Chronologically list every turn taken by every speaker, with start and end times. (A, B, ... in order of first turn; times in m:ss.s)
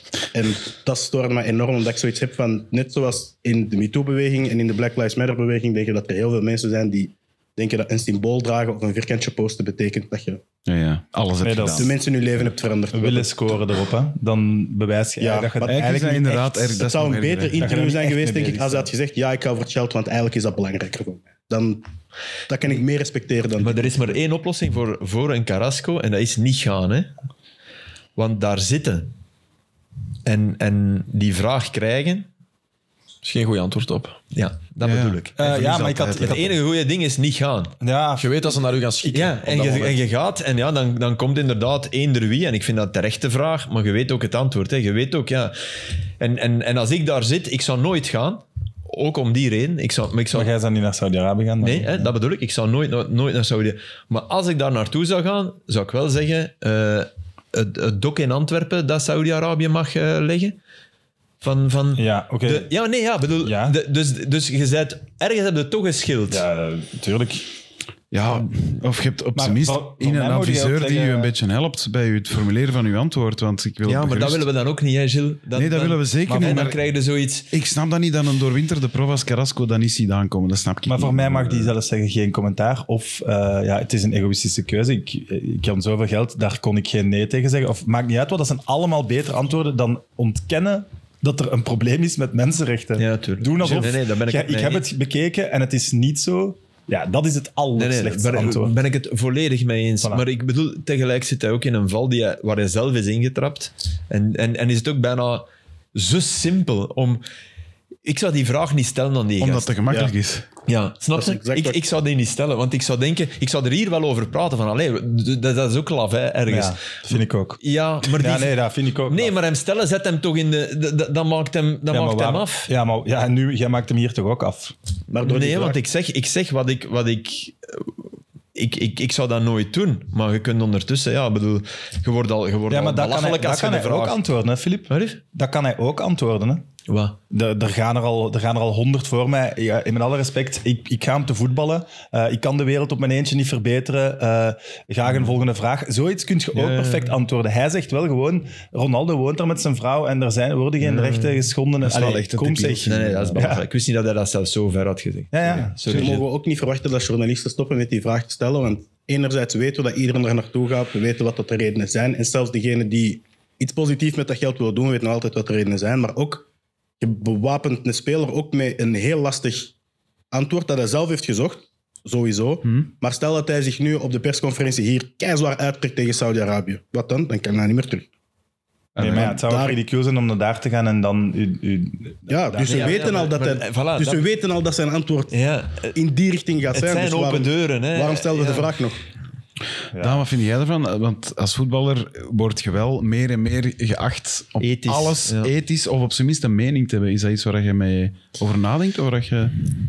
0:00.2-0:10.4 A
0:10.6-0:11.9 B
0:11.4-0:11.9 C
0:11.7-0:13.5 A
0:12.9-0:16.8 C
0:15.2-0:15.9 A
0:15.6-0:17.6 B
0:16.7-0:21.8 A
0:17.6-0:18.9 C
0:22.5-0:24.0 A
0:23.6-0:27.1 D
0:28.2-0:29.1 D
0:30.2-0:32.3 D
0:33.2-0:34.2 E
0:34.3-0:37.8 D
0:34.8-0:36.5 B
0:35.4-0:36.5 C
0:37.8-0:38.5 C
0:38.2-0:40.0 E
0:39.0-0:45.5 D
0:46.2-0:50.5 D
0:50.3-0:52.1 C
0:51.6-1:00.6 D
1:01.4-1:06.4 D
1:02.0-1:02.7 C
1:03.4-1:03.8 C
1:06.3-1:07.5 C
1:08.1-1:14.4 B
1:09.4-1:11.3 C
1:13.8-1:17.5 D
1:15.5-1:16.8 B
1:16.3-1:16.7 C
1:17.5-1:21.7 B
1:20.9-1:38.8 C
1:33.0-1:34.8 D
1:37.8-1:47.2 D
1:48.0-1:49.7 D
1:49.4-1:50.4 B
1:50.7-1:58.5 D
1:51.1-1:51.8 A
1:56.5-1:59.3 C
1:59.1-2:02.7 D
2:01.9-2:04.7 C
2:05.1-2:05.8 A
2:05.2-2:07.9 D
2:08.5-2:14.2 D
2:12.7-2:16.6 C
2:14.9-2:15.2 D
2:16.9-2:17.2 D
2:17.3-2:33.6 C
2:26.5-2:27.1 D
2:30.8-2:31.4 D
2:31.8-2:33.4 B
2:32.8-2:36.2 D
2:35.3-2:36.0 C
2:35.9-2:46.4 A
2:47.0-2:49.7 A
2:50.3-2:58.1 A
2:59.0-2:59.4 B
2:59.0-3:03.1 C
2:59.0-2:59.8 A
3:02.3-3:05.3 A
3:02.6-3:04.2 D
3:05.3-3:06.0 D
3:05.9-3:09.0 A
3:06.7-3:08.8 D
3:09.9-3:10.2 C
3:10.0-3:19.5 B
3:14.6-3:15.5 D